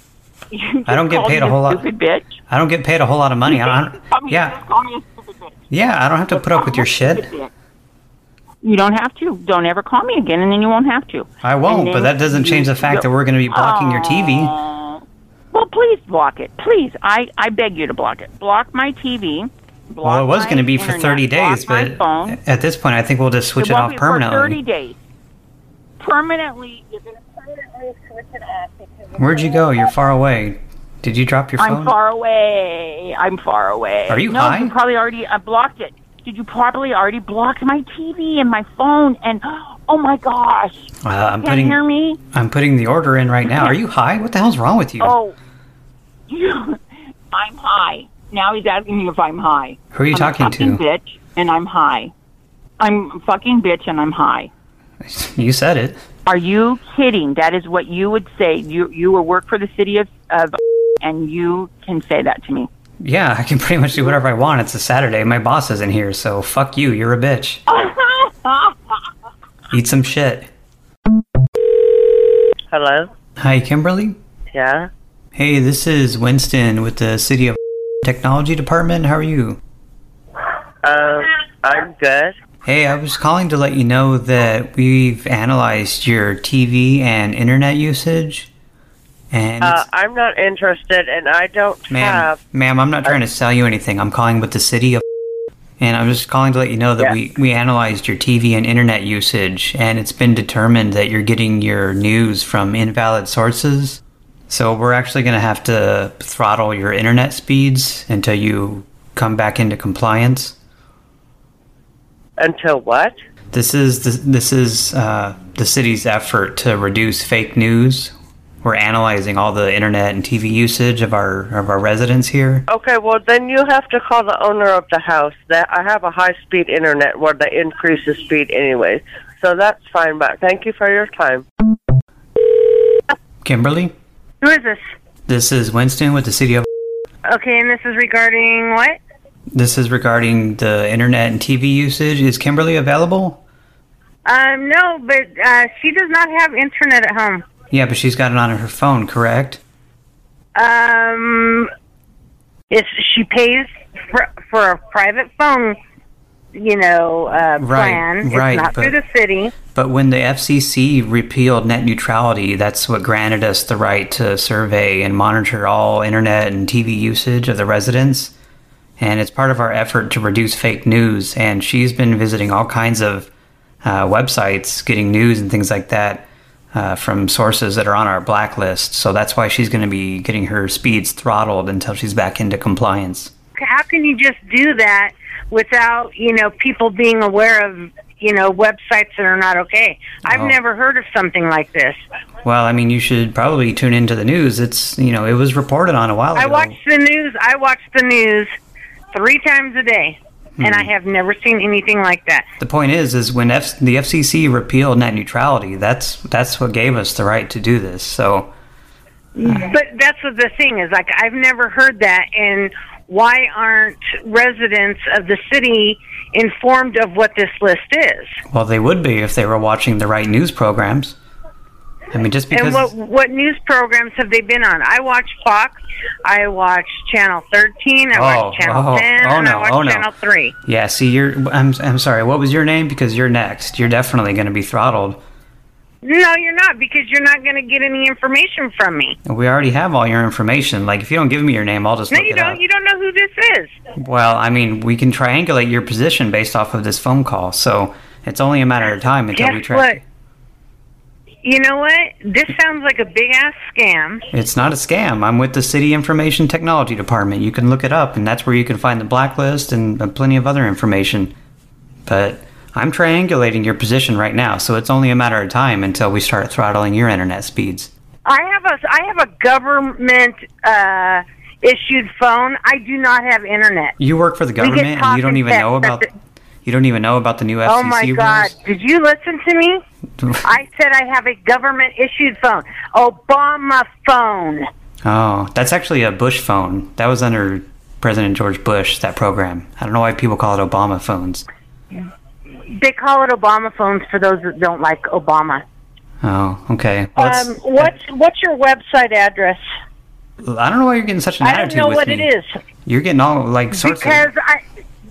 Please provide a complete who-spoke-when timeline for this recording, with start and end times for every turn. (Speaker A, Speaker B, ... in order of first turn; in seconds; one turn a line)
Speaker A: 0.5-2.4
Speaker B: 0.9-1.8
Speaker B: 2.5-4.6
Speaker A: 3.5-5.5
Speaker B: 5.7-7.3
Speaker A: 6.3-7.5
Speaker A: 8.6-22.4
Speaker B: 11.4-14.5
Speaker B: 20.0-24.6
Speaker A: 23.6-24.9
Speaker A: 26.0-27.8
Speaker B: 29.2-31.9
Speaker A: 31.6-42.2
Speaker B: 34.1-34.7
Speaker B: 41.0-41.8
Speaker B: 42.3-45.1
Speaker A: 43.5-43.8
Speaker A: 45.0-45.4
Speaker A: 46.3-46.8
Speaker A: 47.3-52.1
Speaker B: 49.9-50.8
Speaker A: 52.8-54.5
Speaker B: 55.0-56.0
Speaker A: 56.2-62.7
Speaker B: 63.0-67.6
Speaker A: 67.7-68.7
Speaker B: 69.7-70.5
Speaker C: 72.7-73.1
Speaker B: 73.4-74.2
Speaker C: 74.5-74.9
Speaker B: 75.3-79.6
Speaker C: 80.8-82.3
Speaker B: 82.6-88.5
Speaker B: 89.3-89.8
Speaker C: 89.6-92.4
Speaker B: 91.9-95.0
Speaker B: 95.8-110.5
Speaker C: 112.4-113.2
Speaker B: 113.5-122.6
Speaker C: 122.7-131.4
Speaker B: 133.4-133.9
Speaker D: 134.4-134.8
Speaker B: 135.3-136.7
Speaker D: 137.3-139.0
Speaker B: 139.5-143.4
Speaker D: 144.2-147.4
Speaker B: 147.7-149.6
Speaker D: 150.6-151.7
Speaker D: 152.7-155.8
Speaker D: 156.5-159.5
Speaker B: 157.6-159.0
Speaker B: 159.7-168.3
Speaker B: 169.0-173.3
Speaker B: 173.8-183.3
Speaker D: 183.6-192.0
Speaker B: 190.3-190.6
Speaker B: 192.4-196.8
Speaker D: 196.3-198.5
Speaker D: 199.1-202.5
Speaker B: 200.6-200.9
Speaker B: 202.6-208.5
Speaker D: 209.3-218.4
Speaker B: 218.5-221.2
Speaker B: 222.1-222.9
Speaker D: 222.5-230.5
Speaker B: 228.1-230.1
Speaker B: 230.6-235.2
Speaker D: 236.0-239.2
Speaker B: 239.2-242.6
Speaker D: 242.1-243.8
Speaker B: 244.0-250.0
Speaker D: 249.3-250.0
Speaker D: 251.4-254.2
Speaker B: 254.3-261.3
Speaker B: 262.1-267.9
Speaker D: 268.2-273.9
Speaker B: 274.0-276.0
Speaker D: 274.6-276.1
Speaker B: 276.6-278.5
Speaker D: 277.6-279.8
Speaker B: 280.2-280.5
Speaker D: 280.4-284.7
Speaker B: 285.0-291.4
Speaker D: 292.7-295.6
Speaker B: 296.2-297.9
Speaker D: 297.1-299.6
Speaker B: 300.4-302.3
Speaker D: 301.4-302.6
Speaker B: 302.8-304.3
Speaker D: 303.7-304.6